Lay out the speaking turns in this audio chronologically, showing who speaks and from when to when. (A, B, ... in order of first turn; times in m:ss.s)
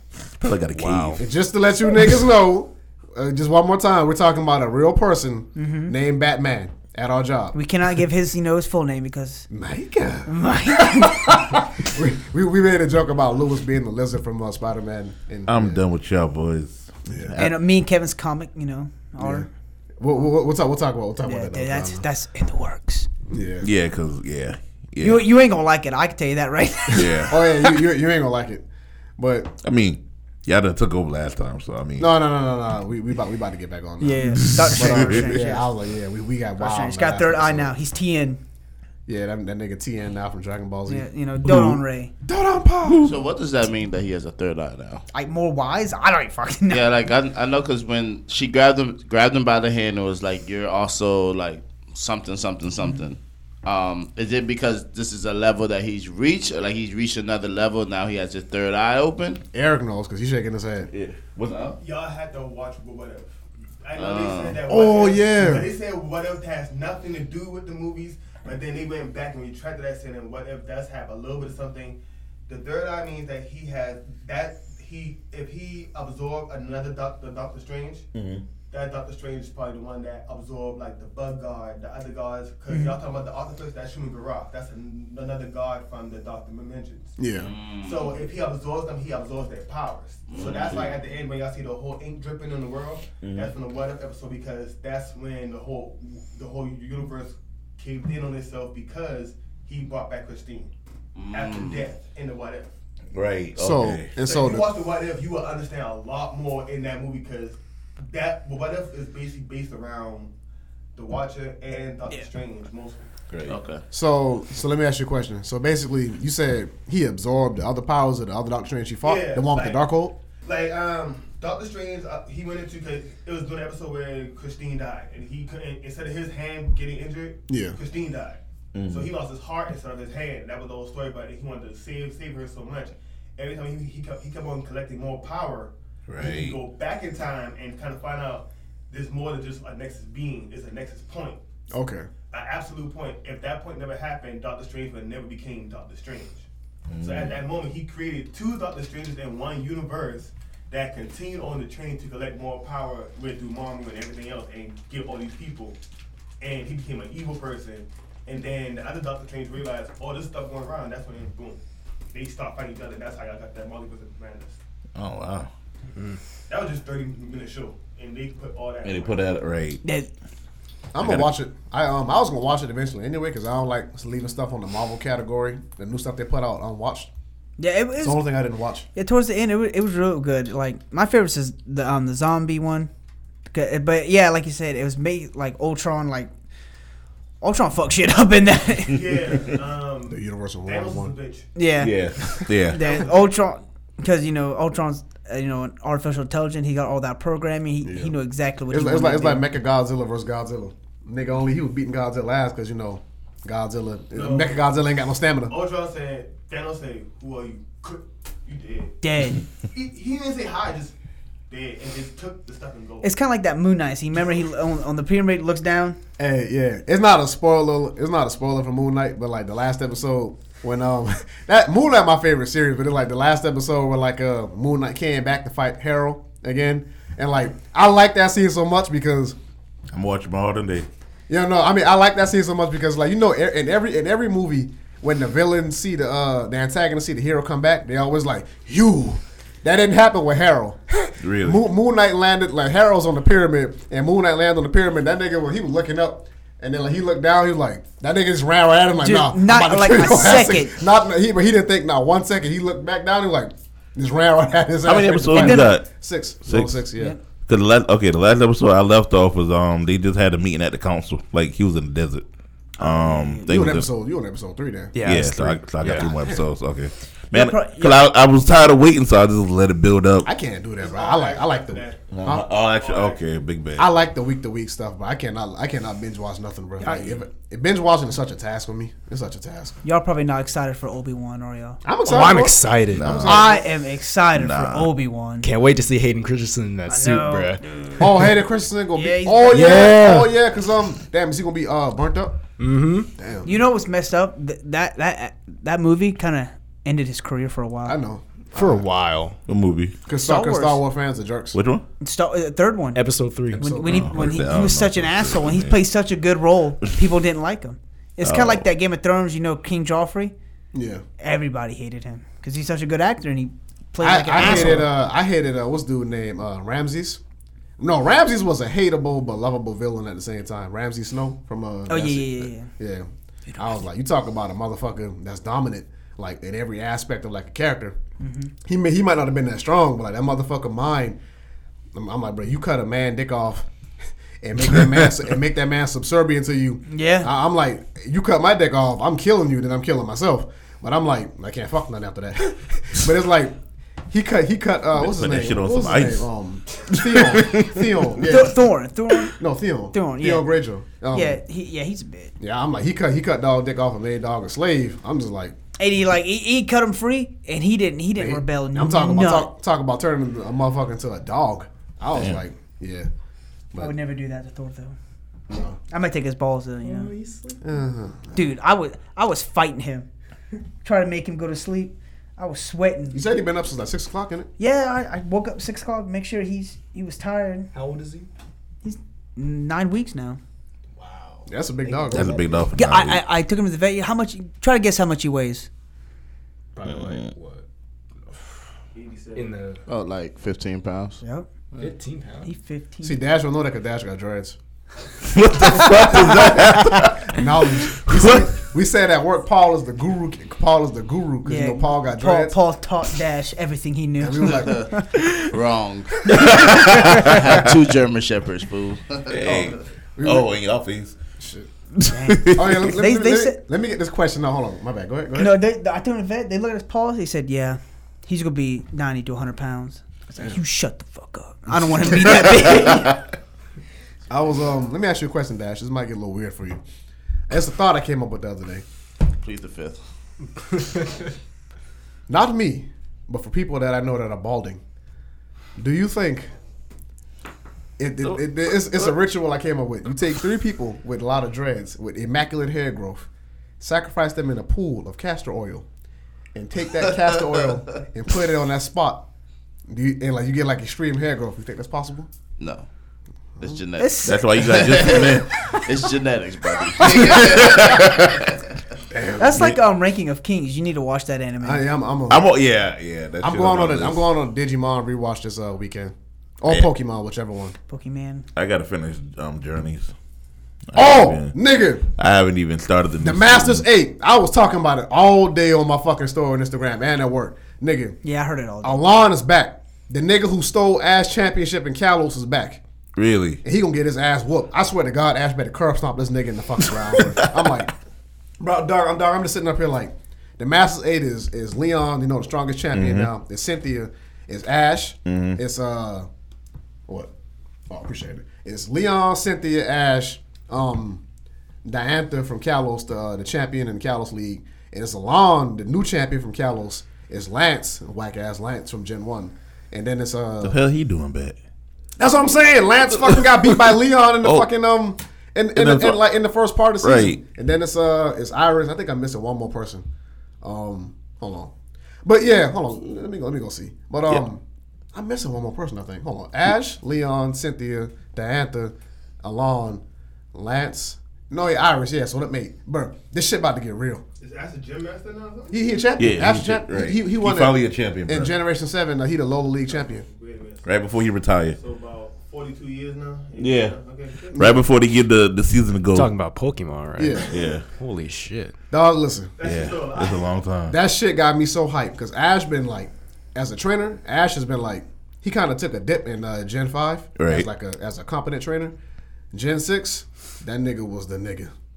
0:00.4-0:01.2 A
0:00.7-0:01.2 B
0:01.2-0:07.6 C
0:05.6-0:06.0 D
0:07.5-0:09.5 D
0:09.5-0:15.8 C
0:10.3-0:11.5 D
0:15.5-0:17.6 A
0:17.1-0:17.3 C
0:17.4-0:19.5 D
0:19.2-0:19.5 C
0:20.0-0:22.0 C
0:21.2-0:23.1 D
0:23.3-0:23.7 C
0:23.6-0:25.2 A
0:25.0-0:27.7 D
0:26.9-0:27.3 A
0:27.3-0:28.6 C
0:29.2-0:29.6 C
0:29.6-0:32.1 A
0:32.0-0:37.7 C
0:34.0-0:35.7 D
0:34.4-0:35.3 A
0:36.6-0:38.4 D
0:39.1-0:41.1 C
0:40.9-0:42.1 D
0:41.4-0:41.8 A
0:42.3-0:43.1 C
0:42.8-0:43.2 A
0:43.0-0:45.0 E
0:45.1-0:46.9 D
0:46.7-0:59.4 E
0:59.5-1:00.9 C
1:00.9-1:01.7 A
1:01.5-1:01.7 E
1:01.8-1:12.0 F
1:04.0-1:04.6 E
1:04.7-1:05.7 C
1:12.5-1:18.0 F
1:18.1-1:18.4 A
1:18.7-1:27.2 F
1:22.7-1:23.0 D
1:27.2-1:27.5 C
1:27.4-1:28.2 E
1:27.8-1:40.7 F
1:30.3-1:30.9 E
1:30.4-1:30.8 A
1:33.2-1:33.5 A
1:41.1-1:41.9 E
1:41.3-1:42.7 F
1:43.1-1:44.1 A
1:43.6-1:44.7 C
1:44.2-1:50.3 F
1:51.0-1:53.1 F
1:53.3-1:53.6 A
1:53.4-1:53.8 E
1:53.9-2:00.2 C
1:59.0-1:59.8 F
2:00.4-2:21.4 F
2:07.5-2:07.8 C
2:08.7-2:09.1 A
2:16.1-2:16.6 A
2:21.7-2:22.1 C
2:22.3-2:26.4 F
2:26.9-2:27.4 A
2:27.0-2:35.8 F
2:36.4-2:41.6 F
2:42.1-2:44.6 F
2:45.0-2:45.5 A
2:46.5-2:49.2 F
2:48.8-2:49.8 A
2:49.8-2:50.1 D
2:50.9-2:57.1 C
2:51.0-2:51.3 A
2:57.6-2:58.2 D
2:58.0-2:58.9 C
2:59.0-3:02.9 D
3:03.5-3:06.3 D
3:07.4-3:09.0 D
3:08.9-3:11.5 F
3:10.1-3:11.1 C
3:11.6-3:19.4 D
3:11.8-3:12.8 A
3:12.8-3:13.1 F
3:17.8-3:18.1 C
3:18.7-3:25.5 C
3:24.1-3:24.6 F
3:25.5-3:29.0 F
3:29.0-3:29.4 D
3:29.7-3:31.0 F
3:31.5-3:33.1 F
3:33.0-3:36.0 D
3:36.2-3:49.4 C
3:49.9-3:50.9 A
3:51.3-4:17.1 C
4:01.2-4:01.6 A
4:09.0-4:10.7 D
4:14.8-4:15.9 A
4:15.3-4:15.7 D
4:16.4-4:16.7 A
4:17.4-4:22.2 A
4:22.8-4:23.5 D
4:22.8-4:23.9 A
4:23.5-4:25.0 C
4:24.9-4:26.1 B
4:25.0-4:30.3 A
4:25.9-4:26.4 C
4:27.3-4:28.1 D
4:30.2-4:32.5 C
4:30.8-4:33.2 F
4:32.1-4:33.9 A
4:33.8-4:39.7 C
4:36.8-4:37.2 D
4:39.8-4:41.8 D
4:41.8-4:43.6 C
4:42.0-4:43.3 B
4:42.9-4:43.4 A
4:43.3-4:45.5 D
4:44.3-4:44.9 A
4:45.4-4:47.6 B
4:46.9-4:48.3 D
4:48.0-4:52.4 C
4:48.9-4:50.0 D
4:49.5-4:50.3 B
4:52.6-4:53.1 B
4:53.2-4:53.6 C
4:53.4-4:58.0 D
4:57.8-4:58.8 C
4:58.5-4:59.4 B
4:59.5-4:59.9 A
5:00.0-5:01.6 C
5:00.2-5:00.8 D
5:01.5-5:01.8 A
5:02.0-5:10.3 D
5:03.0-5:03.7 B
5:03.5-5:04.4 C
5:03.8-5:05.8 A
5:08.2-5:08.6 A
5:10.7-5:11.0 C
5:11.2-5:14.9 D
5:14.0-5:17.2 C
5:14.4-5:14.7 A
5:17.8-5:28.0 C
5:21.9-5:22.7 D
5:28.2-5:28.5 D
5:28.6-5:31.2 C
5:31.9-5:33.7 C
5:34.4-5:43.6 C
5:36.9-5:37.3 D
5:44.1-5:48.6 C
5:45.0-5:46.3 A
5:46.9-5:48.2 A
5:48.2-5:49.3 D
5:49.4-5:51.4 C
5:49.9-5:50.5 D
5:51.1-5:52.3 D
5:52.4-5:55.6 C
5:55.8-5:59.5 D
5:58.2-6:03.1 C
6:03.8-6:05.0 D
6:05.5-6:05.8 C
6:05.9-6:07.1 D
6:06.8-6:07.6 B
6:07.6-6:08.4 C
6:08.3-6:10.1 D
6:10.8-6:13.2 D
6:13.1-6:14.5 C
6:14.6-6:17.7 D
6:17.7-6:18.3 B
6:18.8-6:20.4 D
6:21.0-6:22.7 B
6:21.5-6:22.6 C
6:22.1-6:23.2 A
6:22.7-6:25.7 D
6:26.7-6:27.6 B
6:26.9-6:27.3 A
6:28.3-6:28.5 B
6:28.9-6:29.6 F
6:29.3-6:29.8 B
6:29.9-6:31.2 E
6:31.2-6:31.5 D
6:31.8-6:32.5 B
6:32.4-6:33.2 D
6:33.0-6:34.6 C
6:35.3-6:38.5 A
6:35.6-6:42.6 C
6:41.4-6:45.1 D
6:44.2-6:44.9 C
6:44.6-6:49.8 E
6:46.3-6:46.6 D
6:46.3-6:47.4 A
6:49.3-6:51.2 A
6:49.5-6:50.5 C
6:51.4-6:51.7 C
6:52.0-6:53.6 D
6:52.3-6:52.6 A
6:52.4-6:55.6 C
6:55.4-7:03.2 D
7:04.3-7:06.8 C
7:07.5-7:08.8 C
7:09.4-7:10.0 E
7:12.3-7:14.8 C
7:15.8-7:16.5 C
7:18.0-7:23.3 C
7:23.8-7:25.9 C
7:26.5-7:29.3 C
7:29.9-7:32.3 C
7:32.6-7:32.9 E
7:33.6-7:38.6 E
7:34.0-7:34.4 D
7:34.2-7:35.8 A
7:37.0-7:38.4 A
7:39.1-7:39.8 A
7:39.4-7:41.8 D
7:41.6-7:42.4 C
7:42.3-7:44.2 A
7:43.4-7:47.7 C
7:47.9-7:48.4 D
7:48.6-7:50.1 A
7:50.9-7:51.6 A
7:51.0-7:52.0 C
7:52.2-7:53.8 A
7:53.2-7:58.2 C
7:58.2-7:59.0 D
7:58.8-8:02.8 C
8:03.2-8:03.6 A
8:03.6-8:07.9 C
8:08.6-8:16.3 C
8:12.9-8:13.3 A
8:15.3-8:15.6 A
8:17.9-8:21.2 C
8:21.8-8:30.8 C
8:30.6-8:31.6 A
8:32.2-8:40.0 C
8:33.2-8:34.7 A
8:35.7-8:36.2 A
8:37.0-8:37.4 A
8:40.6-8:41.7 C
8:42.2-8:44.6 C
8:45.1-8:50.0 C
8:50.5-8:54.2 C
8:54.4-8:55.8 F
8:55.7-9:00.2 C
8:56.2-8:58.5 A
8:59.9-9:00.9 F
9:00.8-9:01.8 A
9:01.7-9:04.6 F
9:03.6-9:04.0 A
9:04.5-9:06.3 A
9:04.5-9:04.8 C
9:06.1-9:08.7 B
9:07.2-9:07.5 C
9:07.5-9:07.8 A
9:08.9-9:09.6 C
9:09.6-9:10.6 F
9:09.6-9:11.0 A
9:10.9-9:19.0 C
9:17.4-9:17.7 A
9:19.5-9:21.7 C